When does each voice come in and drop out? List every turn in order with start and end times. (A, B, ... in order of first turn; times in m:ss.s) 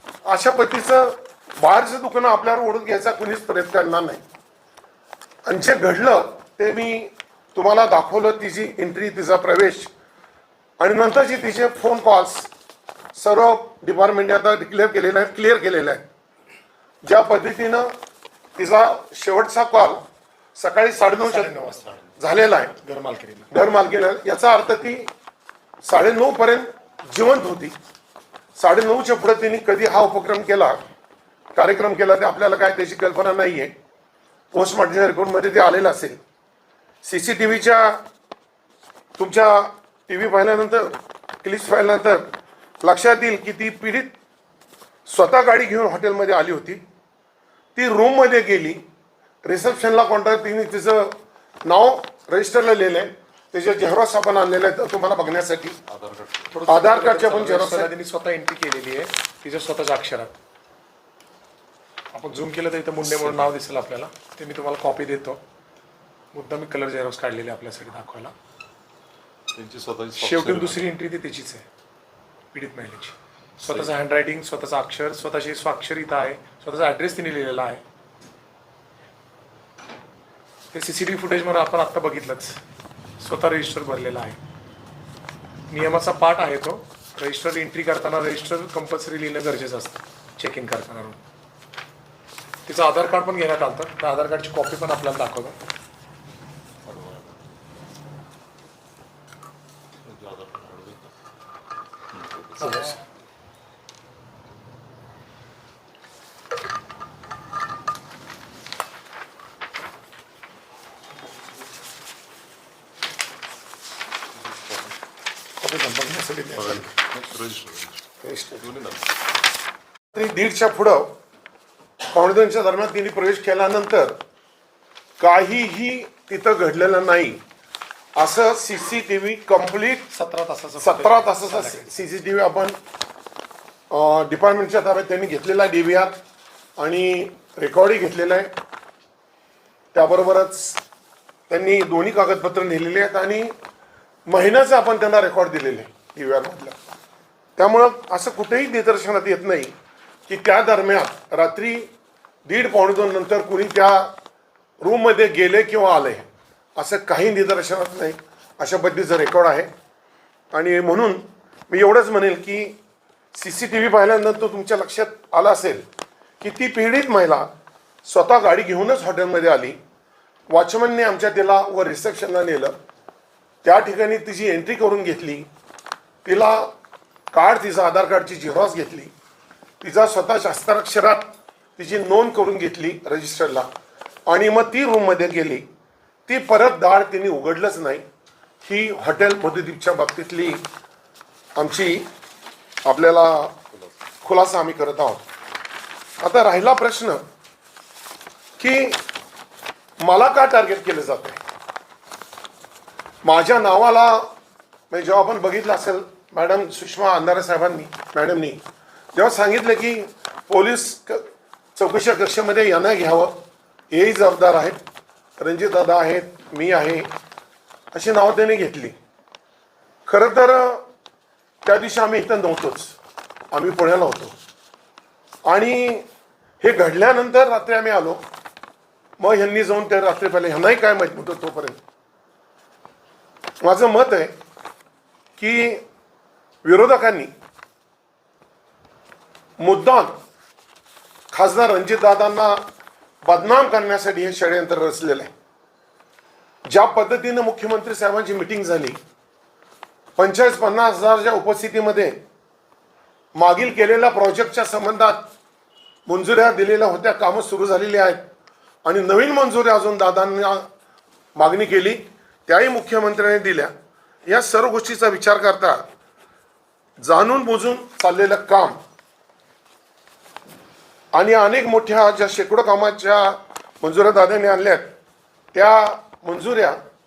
0:00.2-0:04.2 A
0:05.4-0:09.9 A
0:10.8-0:12.5 A
0:13.1-0:16.0 A
0:17.0-0:17.9 A
0:18.6-0:20.0 A
0:20.6-0:22.8 A
0:21.2-0:22.0 B
0:22.7-0:23.5 B
0:23.5-0:25.1 A
0:25.8-0:27.7 A
0:28.5-0:30.8 A
0:31.5-0:33.7 A
0:34.5-0:36.2 A
0:37.0-0:38.0 A
0:39.2-0:44.1 A
0:45.0-0:46.8 A
0:47.7-0:48.8 A
0:49.4-0:55.8 A
0:55.9-0:56.5 C
0:56.5-1:00.4 B
0:56.7-0:57.9 A
1:02.1-1:05.4 B
1:03.0-1:03.5 C
1:06.3-1:08.3 B
1:09.5-1:10.9 C
1:10.2-1:11.6 B
1:12.5-1:17.8 B
1:13.6-1:13.9 C
1:20.7-1:22.6 B
1:23.2-1:24.4 B
1:25.7-1:31.2 B
1:32.6-1:35.6 B
1:36.8-1:37.5 C
1:40.0-1:41.1 C
1:42.3-1:43.0 C
1:42.6-1:43.0 B
1:54.4-1:54.9 C
1:55.6-1:56.9 B
1:56.5-1:58.0 C
1:58.2-1:58.6 A
1:58.6-1:59.1 C
2:00.1-2:01.1 A
2:02.0-2:04.2 A
2:05.2-2:07.4 A
2:08.2-2:10.1 A
2:10.1-2:11.9 B
2:10.8-2:12.7 A
2:13.9-2:16.2 A
2:16.8-2:18.5 A
2:19.9-2:20.8 A
2:21.5-2:23.5 A
2:24.3-2:26.8 A
2:27.6-2:29.7 A
2:30.3-2:31.9 A
2:32.4-2:34.1 A
2:34.8-2:39.7 A
2:40.5-2:42.8 A
2:43.3-2:45.8 A
2:46.4-2:47.5 A
2:48.0-2:49.8 A
2:50.5-2:52.7 A
2:53.6-2:55.5 A
2:56.2-2:56.7 A
2:57.3-2:59.1 A
2:59.8-3:03.7 A
3:04.3-3:05.7 A
3:06.3-3:08.0 A
3:08.6-3:10.6 A
3:11.6-3:12.1 A
3:12.8-3:13.6 A
3:14.2-3:15.2 A
3:16.2-3:17.2 A
3:18.6-3:19.0 A
3:20.0-3:21.4 A
3:23.2-3:24.3 A
3:24.9-3:28.6 A
3:29.1-3:31.2 A
3:31.7-3:33.4 A
3:33.9-3:34.8 A
3:35.4-3:37.1 A
3:37.9-3:39.0 A
3:40.0-3:40.8 A
3:41.6-3:43.0 A
3:43.5-3:44.3 A
3:45.4-3:46.0 A
3:46.6-3:48.2 A
3:49.2-3:51.8 A
3:53.6-3:54.3 A
3:55.4-3:55.8 A
3:56.6-3:57.3 A
3:59.6-4:00.1 A
4:01.3-4:02.6 A
4:03.2-4:05.3 A
4:06.7-4:09.0 A
4:10.2-4:12.2 A
4:13.4-4:15.3 A
4:16.0-4:18.2 A
4:18.8-4:20.7 A
4:21.3-4:23.7 A
4:24.3-4:25.8 A
4:27.0-4:28.8 A
4:31.1-4:34.9 A
4:35.5-4:36.8 A